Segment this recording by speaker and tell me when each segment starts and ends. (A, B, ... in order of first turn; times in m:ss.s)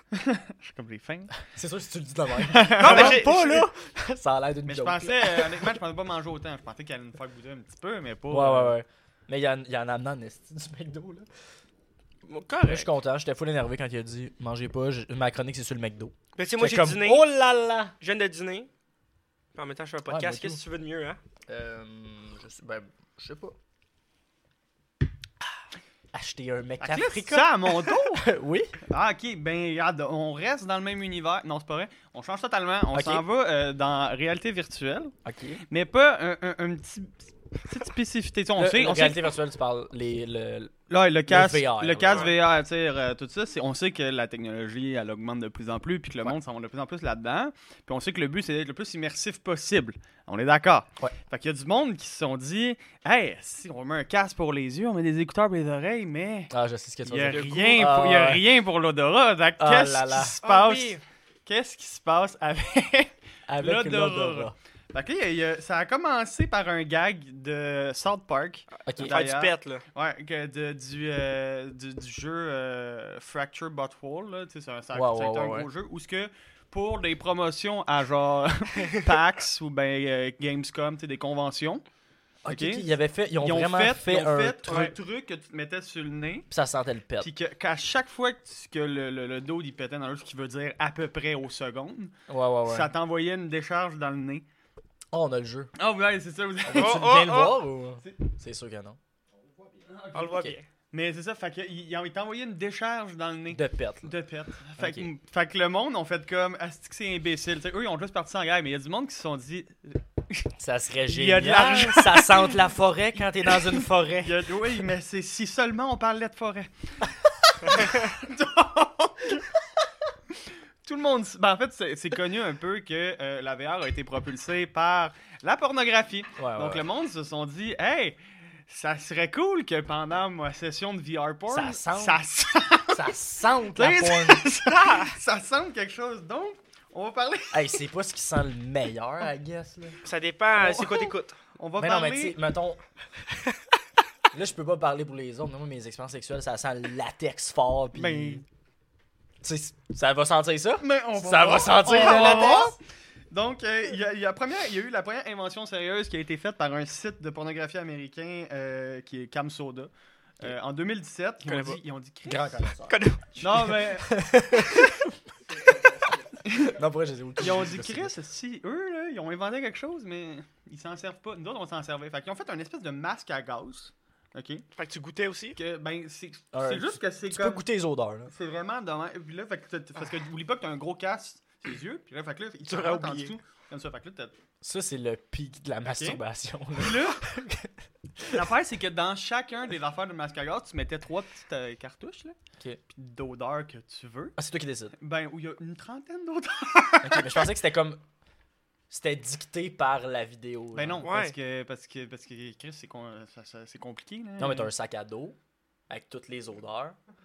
0:00.1-0:01.3 A
0:01.5-0:05.8 B
0:02.4-0:03.5 A
0:02.8-0:03.7 C
0:04.6-0:08.8 A
0:08.3-0:11.3 B
0:12.2-0:12.9 C
0:12.6-0:17.9 B
0:16.4-0:17.3 C
0:18.0-0:18.7 C
0:19.5-0:21.2 C
0:20.1-0:20.6 B
0:21.5-0:23.6 B
0:26.1-0:28.8 B
0:26.8-0:28.2 A
0:28.9-0:35.1 A
0:32.9-0:33.2 B
0:35.2-0:35.6 B
0:35.7-0:39.3 A
0:38.6-0:42.3 B
0:40.9-0:56.5 A
0:42.1-0:42.3 C
0:56.5-0:58.4 B
0:57.0-1:21.8 A
0:59.6-1:00.4 B
1:00.4-1:01.0 C
1:03.5-1:04.5 B
1:08.9-1:09.2 B
1:09.0-1:09.8 C
1:14.9-1:15.7 B
1:22.4-1:24.9 B
1:22.5-1:26.5 A
1:24.7-1:24.9 C
1:26.5-1:27.3 B
1:27.2-1:34.4 A
1:32.3-1:32.9 B
1:35.1-1:35.7 B
1:35.8-1:37.1 A
1:36.6-1:39.0 B
1:36.8-1:37.6 C
1:39.9-1:50.5 A
1:40.1-1:40.6 C
1:43.5-1:44.1 B
1:44.8-1:45.1 B
1:50.6-1:54.5 B
1:51.1-1:52.6 A
1:54.2-1:56.7 A
1:57.6-1:59.4 A
2:00.8-2:13.1 A
2:06.4-2:06.8 B
2:11.5-2:12.2 B
2:12.9-2:14.5 B
2:13.8-2:17.7 A
2:17.5-2:20.0 B
2:20.0-2:21.4 C
2:20.6-2:22.4 A
2:21.8-2:22.8 B
2:24.3-2:28.4 B
2:27.9-2:28.4 A
2:29.4-2:32.8 B
2:30.8-2:32.8 A
2:33.3-2:42.7 A
2:41.4-2:41.8 C
2:42.2-2:43.0 B
2:42.9-2:43.7 C
2:43.4-2:44.2 A
2:43.6-2:45.0 B
2:45.6-2:45.9 B
2:46.5-2:48.1 B
2:47.4-2:54.6 A
2:54.8-2:55.6 C
2:55.6-2:57.6 A
2:56.5-2:58.3 B
2:58.3-3:04.4 A
3:02.6-3:03.3 C
3:04.6-3:08.4 B
3:05.8-3:06.2 A
3:06.8-3:07.2 A
3:08.3-3:12.4 A
3:12.9-3:14.4 A
3:14.4-3:14.9 B
3:15.0-3:17.5 A
3:17.0-3:18.0 B
3:18.9-3:21.1 B
3:20.7-3:24.7 A
3:21.0-3:21.4 C
3:24.4-3:25.4 B
3:25.9-3:27.0 B